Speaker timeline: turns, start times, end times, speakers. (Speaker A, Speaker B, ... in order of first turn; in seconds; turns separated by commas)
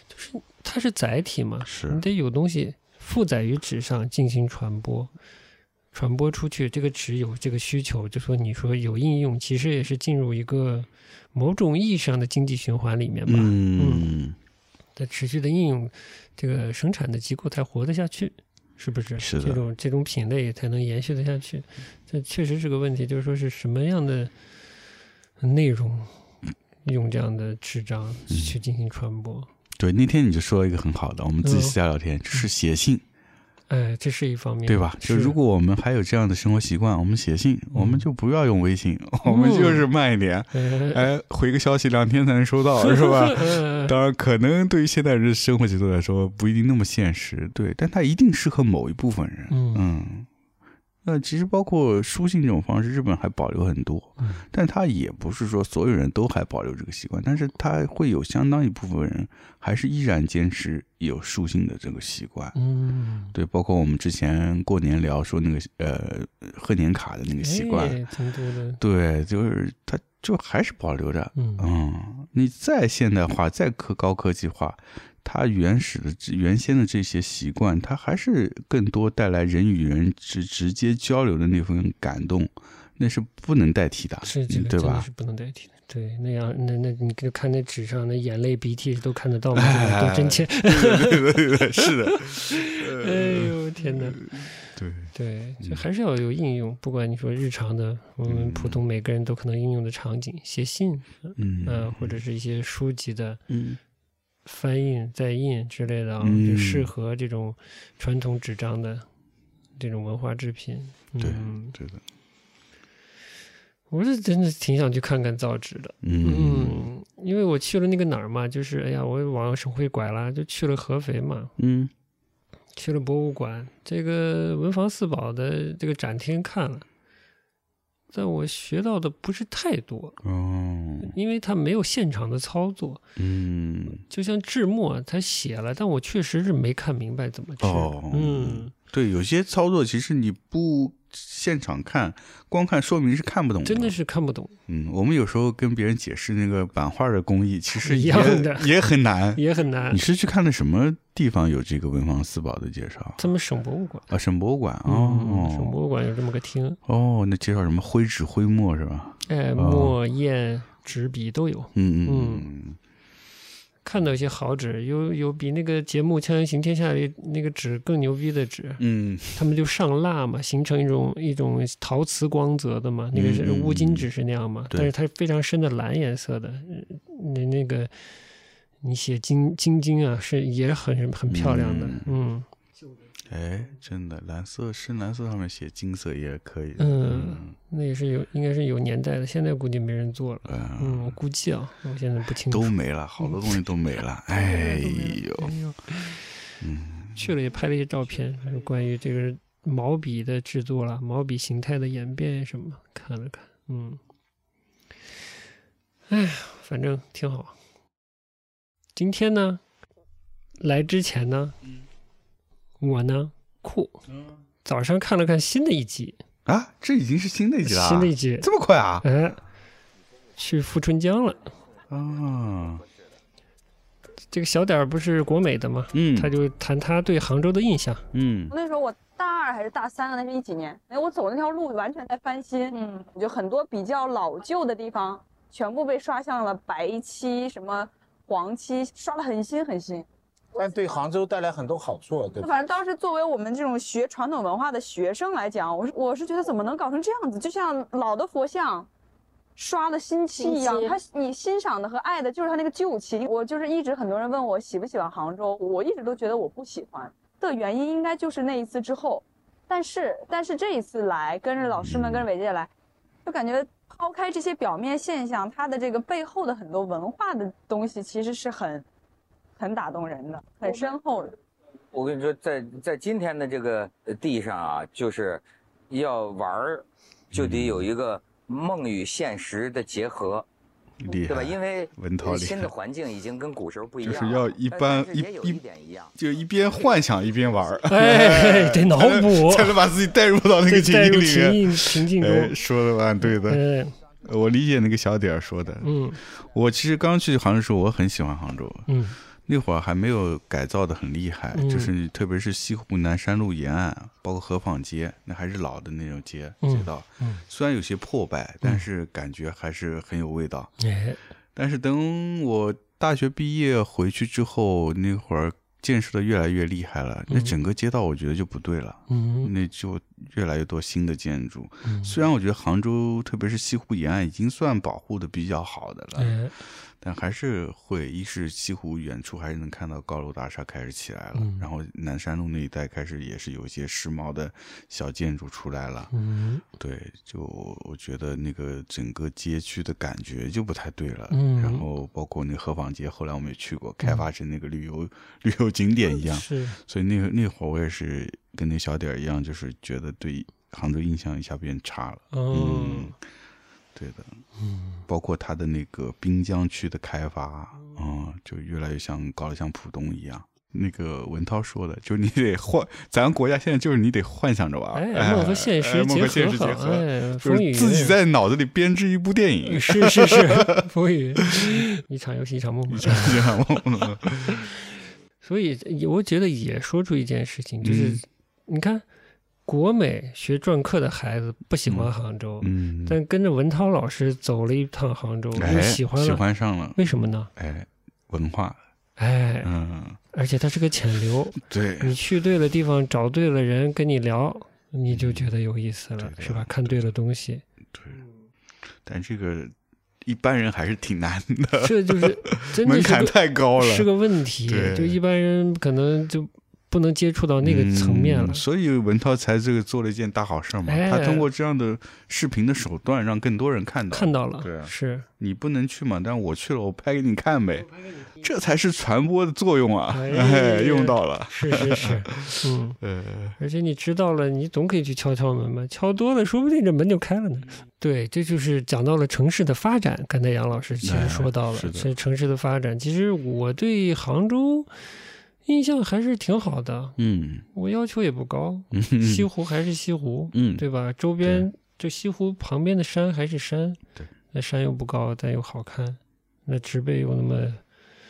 Speaker A: 0.1-5.1, Speaker B: 1.6-2.0, Speaker A: 5.9-14.1, Speaker B: 13.3-14.4, Speaker A: 15.0-24.3, Speaker B: 19.2-19.6, Speaker A: 25.4-26.1, Speaker A: 26.8-29.5, Speaker B: 28.3-28.6, Speaker B: 29.8-33.0, Speaker A: 31.4-31.8, Speaker A: 33.7-35.4, Speaker B: 34.7-50.3, Speaker A: 37.7-38.1, Speaker A: 39.2-39.9, Speaker A: 40.5-41.1, Speaker A: 42.8-44.0, Speaker A: 49.5-49.8, Speaker B: 51.0-62.6, Speaker A: 54.2-54.4, Speaker A: 62.6-63.4, Speaker B: 63.3-68.0, Speaker A: 67.4-68.8, Speaker B: 68.8-85.1, Speaker A: 71.4-71.7, Speaker A: 84.2-94.4, Speaker B: 89.5-95.8, Speaker A: 95.1-103.4, Speaker B: 98.3-98.8, Speaker B: 101.4-102.2, Speaker B: 103.5-103.8, Speaker A: 104.5-109.1, Speaker B: 106.2-106.9, Speaker A: 109.8-111.8, Speaker B: 111.2-112.0, Speaker A: 113.9-121.5, Speaker B: 116.0-116.8, Speaker B: 121.6-121.9, Speaker A: 122.8-126.9, Speaker A: 128.1-130.2, Speaker B: 130.2-131.1, Speaker A: 131.0-133.0, Speaker B: 133.2-134.0, Speaker A: 134.0-138.7, Speaker B: 137.6-143.9, Speaker A: 143.6-144.6, Speaker B: 144.7-153.3, Speaker A: 147.8-148.8, Speaker A: 149.3-150.0, Speaker A: 153.2-154.1, Speaker B: 154.1-155.8, Speaker A: 154.9-156.8, Speaker B: 156.9-160.0, Speaker A: 159.3-162.5, Speaker B: 161.8-162.8, Speaker A: 163.8-168.8, Speaker B: 168.8-169.4, Speaker A: 169.3-177.9, Speaker B: 173.1-174.1, Speaker A: 178.8-182.5, Speaker B: 181.3-182.2, Speaker B: 183.3-187.6, Speaker A: 186.8-193.6, Speaker B: 190.4-191.2, Speaker B: 192.5-195.6, Speaker A: 194.3-196.2, Speaker B: 196.6-197.3, Speaker A: 197.2-204.0, Speaker A: 206.1-207.6, Speaker A: 208.9-209.6, Speaker A: 210.6-211.6, Speaker A: 212.8-214.0, Speaker A: 214.6-216.2, Speaker B: 216.5-219.1, Speaker A: 217.6-218.5, Speaker A: 219.0-219.4, Speaker A: 220.4-221.5, Speaker B: 221.9-222.8, Speaker A: 224.3-228.1, Speaker B: 225.9-226.3, Speaker B: 228.1-228.5, Speaker C: 228.5-240.1, Speaker D: 240.5-242.5, Speaker C: 242.4-248.9, Speaker C: 249.6-262.7, Speaker B: 261.8-262.3, Speaker C: 263.2-268.9, Speaker C: 269.6-271.4, Speaker E: 271.9-280.5, Speaker B: 277.3-277.9, Speaker B: 281.0-282.7, Speaker E: 281.2-286.1, Speaker B: 284.0-285.6, Speaker B: 286.1-293.6, Speaker A: 287.9-289.8, Speaker A: 290.7-292.6, Speaker A: 293.2-294.0, Speaker B: 294.2-298.9, Speaker A: 295.8-296.2, Speaker A: 298.9-299.2, Speaker B: 299.4-310.7, Speaker A: 301.5-301.9, Speaker A: 306.6-307.4, Speaker A: 310.8-311.2, Speaker B: 311.6-326.4, Speaker A: 317.3-317.5, Speaker A: 319.1-319.5, Speaker A: 321.9-322.1, Speaker A: 326.2-326.5, Speaker B: 327.0-336.1, Speaker A: 331.4-331.7, Speaker A: 336.1-336.6, Speaker B: 336.8-353.1, Speaker A: 341.3-341.9, Speaker A: 346.1-346.8, Speaker A: 352.3-353.1, Speaker B: 353.9-354.4, Speaker A: 354.6-355.0, Speaker B: 355.1-370.9, Speaker A: 364.9-368.2, Speaker A: 369.7-373.6, Speaker B: 371.4-371.8, Speaker B: 372.9-374.6, Speaker A: 374.5-374.8, Speaker A: 375.4-379.1, Speaker B: 377.8-378.2, Speaker A: 379.7-386.4, Speaker B: 381.9-383.2, Speaker B: 385.6-387.0, Speaker A: 387.0-387.5, Speaker B: 387.6-388.8, Speaker A: 389.2-389.7, Speaker B: 389.6-390.2, Speaker A: 390.3-397.6, Speaker B: 391.6-392.2, Speaker B: 395.1-395.5, Speaker B: 396.2-397.0, Speaker B: 397.9-398.2, Speaker B: 399.0-399.7, Speaker B: 400.2-404.1, Speaker A: 401.8-408.6, Speaker B: 404.7-405.2, Speaker B: 407.6-423.6, Speaker A: 410.9-411.5, Speaker A: 414.1-415.3, Speaker A: 420.1-423.0, Speaker A: 423.6-434.9, Speaker B: 431.0-432.1, Speaker A: 435.6-437.2, Speaker B: 437.2-437.6, Speaker A: 437.7-444.0, Speaker B: 438.9-439.5, Speaker B: 440.5-440.8, Speaker B: 441.4-441.7, Speaker A: 444.5-447.8